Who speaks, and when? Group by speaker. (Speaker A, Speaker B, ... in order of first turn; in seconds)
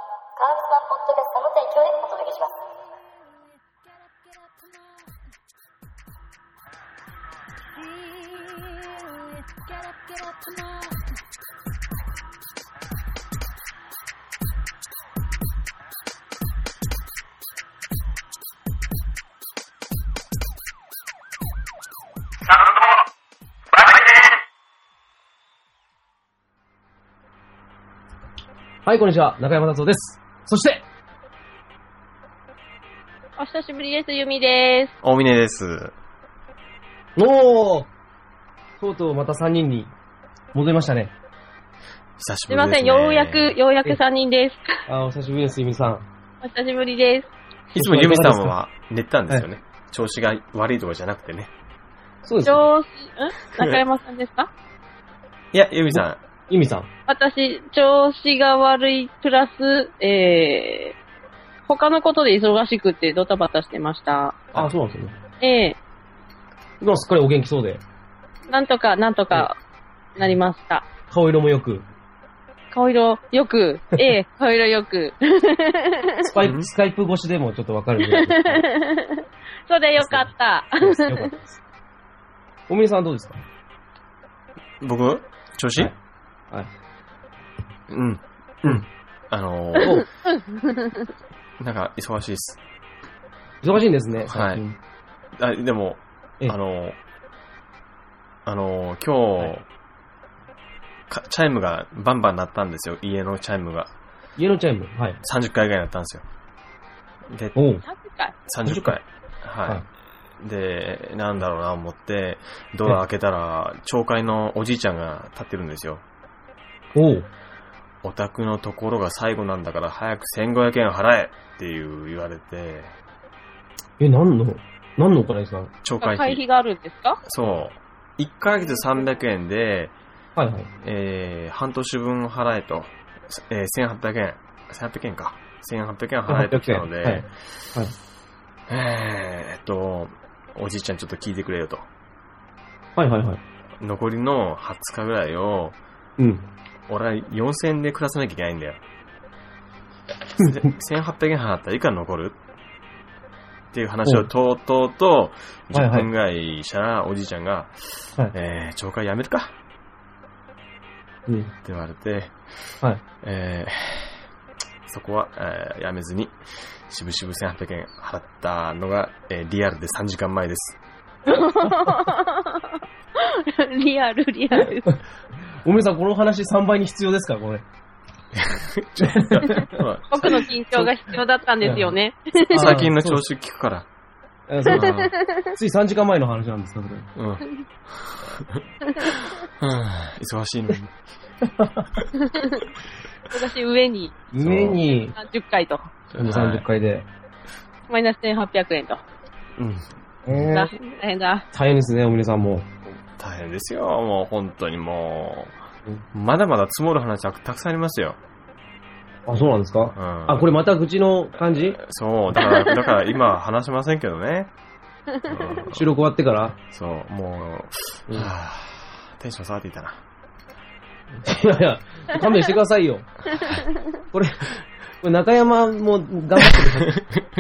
Speaker A: 0.4-2.7
Speaker B: 8.1-9.2, 9.8-10.9
Speaker C: 28.9-30.9, 37.2-37.9, 38.8-39.9, 40.5-41.1, 44.9-46.1, 47.7-48.5, 52.2-52.7, 55.9-56.9, 64.5-65.2, 66.8-67.8, 71.1-71.8, 76.2-78.7, 80.0-80.3, 80.8-81.6, 82.7-83.4, 89.8-90.1, 93.6-94.8, 104.4-105.2, 107.5-107.8, 108.7-109.0, 116.9-117.3, 124.0-125.7, 130.4-130.7, 136.3-137.9, 143.0-143.4, 146.2-146.5, 150.4-150.7, 155.7-156.1, 161.3-161.5, 175.6-177.6, 179.0-179.8, 181.6-181.9, 182.5-183.2, 184.5-187.1, 191.4-191.9, 194.3-195.2, 196.2-197.1, 200.3-200.7, 201.5-202.7, 209.3-211.8, 215.7-216.6, 221.2-223.1, 224.1-227.1
Speaker D: 33.4-34.9, 42.5-44.8, 46.4-47.3, 52.4-54.5, 57.1-61.0, 61.7-64.5, 65.4-65.8, 68.5-69.5, 70.2-70.9, 72.7-76.3, 78.0-81.3, 89.8-91.0, 107.8-108.3, 126.0-127.2, 171.3-174.9, 180.1-182.8, 184.7-185.5, 188.8-189.1, 192.2-192.7, 193.3-194.2, 195.2-195.9, 197.9-199.0, 200.5-201.5
Speaker E: 35.0-35.9, 42.2-43.6, 47.8-51.5, 55.5-56.2, 76.4-76.7, 84.8-85.9, 87.9-90.0, 91.6-92.6, 94.3-94.6, 95.4-97.0, 98.5-99.6, 101.1-103.9, 105.2-106.2, 107.3-107.6, 108.5-109.8, 110.4-116.0, 118.0-122.9, 125.8-126.4, 127.2-129.9, 130.8-137.3, 138.7-141.9, 143.8-145.8, 146.9-148.8, 150.4-152.4, 153.7-159.5, 161.7-162.7, 163.2-164.2, 164.9-170.8, 178.3-180.9, 182.5-183.9, 184.7-185.1, 187.2-190.9, 194.4-194.8, 196.1-196.7, 199.6-199.9, 203.1-205.6, 206.1-208.2, 210.0-210.4, 211.5-214.5, 215.2-215.9, 216.7-220.0, 223.3-223.6, 226.4-227.2